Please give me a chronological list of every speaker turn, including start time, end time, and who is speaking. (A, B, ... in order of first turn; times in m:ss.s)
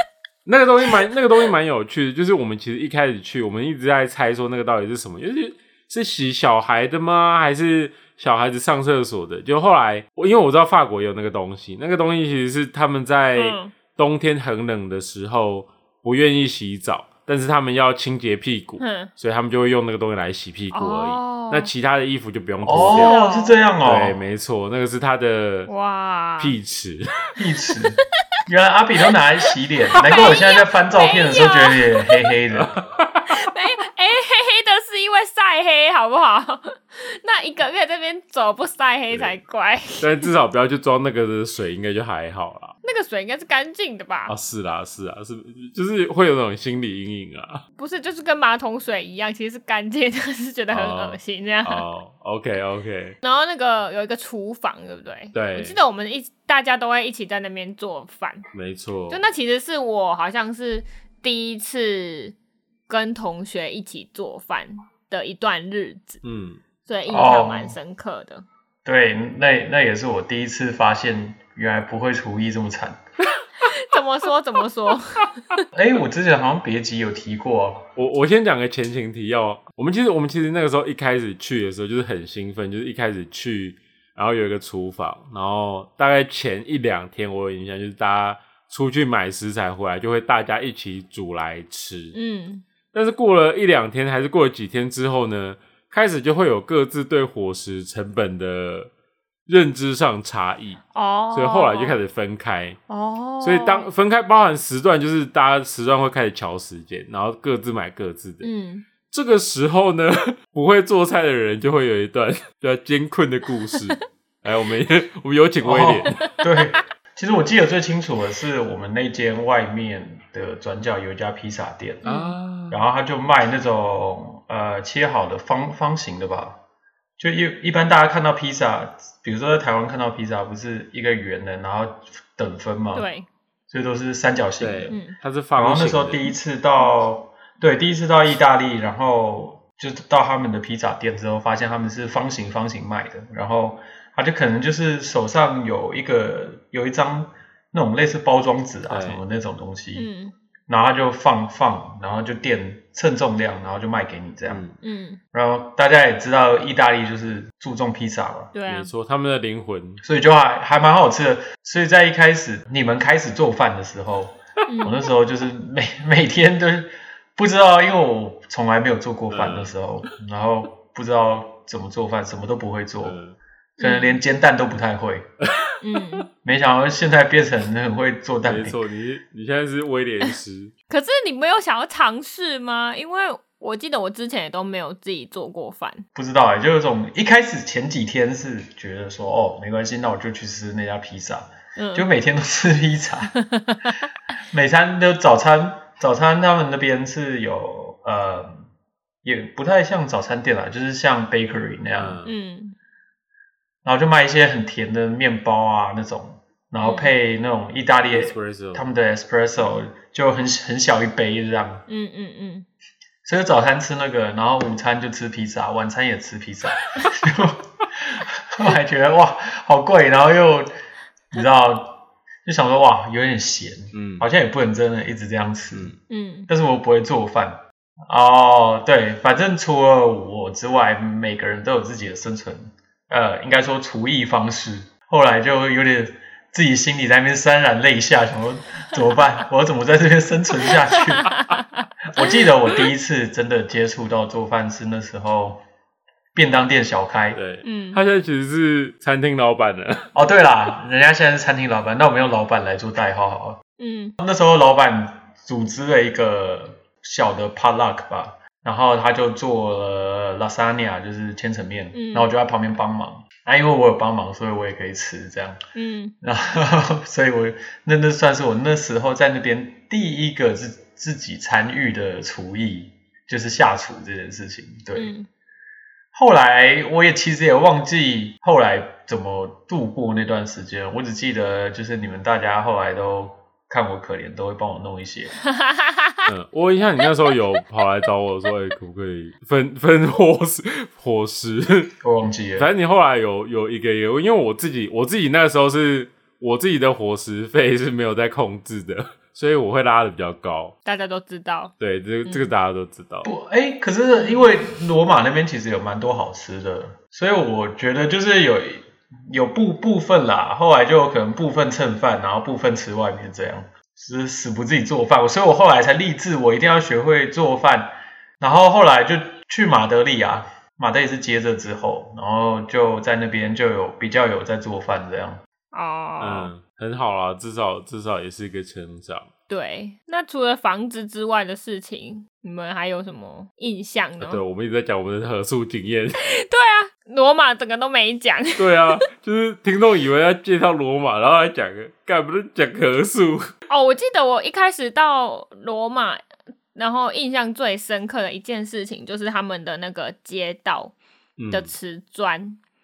0:00.5-0:23.2 A
0:13.4-0:13.7 B
0:18.8-0:19.1 B
0:20.7-0:21.7 B
0:22.6-0:24.2 C
0:22.9-0:23.6 B
0:23.8-0:25.7 A
0:25.7-0:26.6 B
0:26.4-0:27.2 A
0:27.4-0:32.7 C
0:30.0-0:32.2 B
0:32.5-0:33.3 A
0:33.3-0:40.3 B
0:40.0-0:42.7 A
0:42.8-0:44.3 B
0:44.3-0:47.6 A
0:47.8-0:51.8 B
0:50.7-0:53.2 A
0:53.2-0:58.5 B
0:55.3-0:55.8 A
0:58.5-0:59.2 A
0:59.1-1:02.4 B
1:02.9-1:06.2 B
1:06.2-1:06.6 A
1:06.9-1:08.4 B
1:07.1-1:07.8 C
1:08.8-1:13.0 C
1:13.6-1:15.6 B
1:15.7-1:17.8 C
1:18.0-1:32.2 A
1:32.1-1:32.6 B
1:32.9-1:38.9 A
1:39.5-1:40.8 A
1:40.9-1:42.0 B
1:41.3-1:42.8 A
1:42.9-1:43.9 B
1:43.4-1:48.5 A
1:48.4-1:48.9 B
1:49.1-1:56.2 A
1:55.6-2:02.1 C
2:02.0-2:02.4 B
2:02.0-2:02.8 A
2:02.7-2:06.6 C
2:07.2-2:13.1 C
2:12.9-2:13.3 B
2:13.7-2:15.0 C
2:14.6-2:16.2 A
2:14.9-2:15.2 B
2:15.6-2:30.1 C
2:28.9-2:29.2 A
2:30.0-2:30.4 B
2:30.7-2:34.6 C
2:34.5-2:34.8 A
2:34.8-2:35.2 B
2:35.3-2:38.5 C
2:38.5-2:38.9 B
2:38.7-2:40.0 A
2:40.0-2:53.2 C
2:44.7-2:45.0 B
2:49.3-2:50.1 A
2:53.0-2:53.4 A
2:53.8-2:55.3 C
2:53.8-2:54.2 B
2:55.4-2:55.7 A
2:55.8-2:56.3 B
2:56.4-2:58.8 C
2:58.4-3:00.7 A
3:00.9-3:06.1 B
3:06.2-3:13.3 C
3:11.8-3:12.1 B
3:13.3-3:14.1 B
3:14.5-3:18.6 C
3:19.2-3:22.2 C
3:22.0-3:22.3 A
3:22.2-3:22.8 B
3:23.8-3:31.8 C
3:26.8-3:27.1 B
3:28.1-3:28.8 A
3:31.9-3:32.7 B
3:33.2-3:40.7 C
3:41.3-3:45.9 C
3:43.9-3:44.3 A
3:46.1-3:46.5 B
3:46.5-4:01.3 C
4:01.2-4:01.6 B
4:02.1-4:05.6 C
4:06.4-4:07.4 C
4:07.4-4:10.1 A
4:07.6-4:08.0 B
4:10.1-4:13.6 C
4:13.8-4:14.1 B
4:14.2-4:25.6 C
4:21.9-4:22.3 B
4:25.8-4:26.1 B
4:26.2-4:35.1 C
4:35.0-4:35.3 B
4:36.1-4:45.3 C
4:45.5-4:46.3 B
4:46.3-4:52.0 A
4:52.0-4:52.7 C
4:52.6-5:00.8 A
5:00.8-5:01.7 B
5:01.8-5:03.3 A
5:02.2-5:02.5 B
5:03.2-5:25.4 C
5:25.7-5:26.5 B
5:26.2-5:29.3 A
5:29.5-5:34.4 B
5:34.2-5:36.2 A
5:36.2-5:39.0 B
5:38.6-5:43.5 A
5:43.7-5:46.2 B
5:46.8-5:50.9 B
5:51.4-5:51.7 A
5:51.5-5:52.6 B